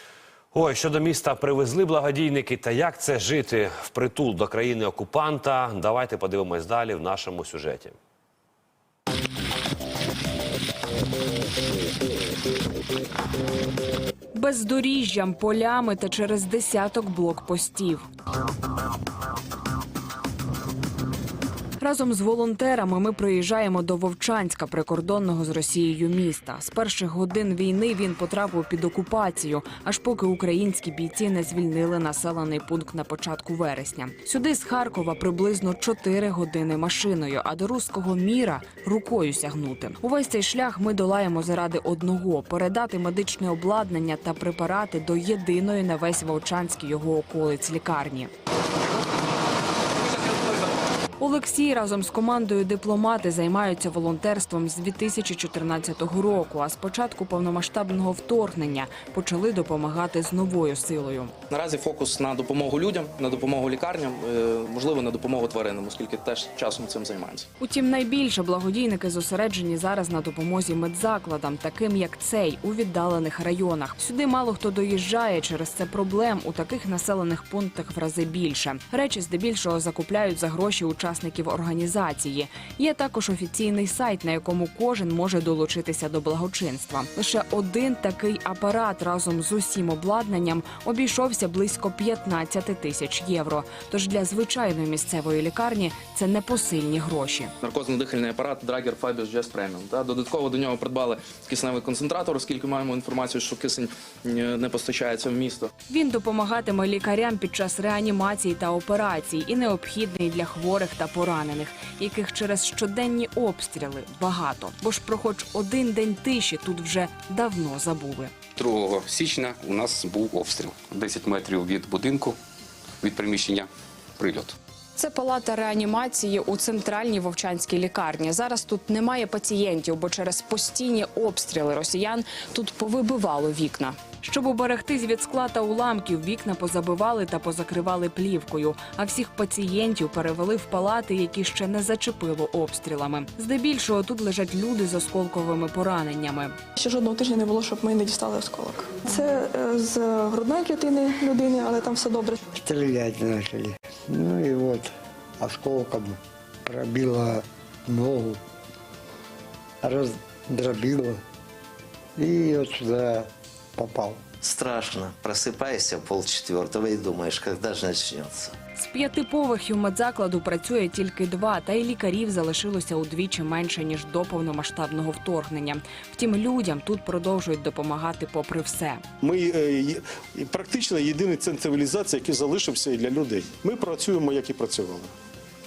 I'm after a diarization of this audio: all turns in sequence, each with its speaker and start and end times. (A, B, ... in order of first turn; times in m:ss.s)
0:00.5-0:08.0 A
0:14.4-0:18.0 B
0:21.8-0:48.3 B
0:51.2-1:01.3 B
1:01.5-1:07.5 C
1:07.6-1:37.5 B
1:37.6-1:45.7 C
1:45.9-1:58.3 B
1:58.6-2:02.4 D
2:03.0-2:04.6 D
2:05.0-2:26.6 B
2:26.8-2:32.4 E
2:32.6-2:38.4 F
2:39.8-2:41.2 F
2:42.2-2:44.2 F
2:44.4-2:48.5 G
2:48.8-2:59.0 B
2:59.2-3:05.1 H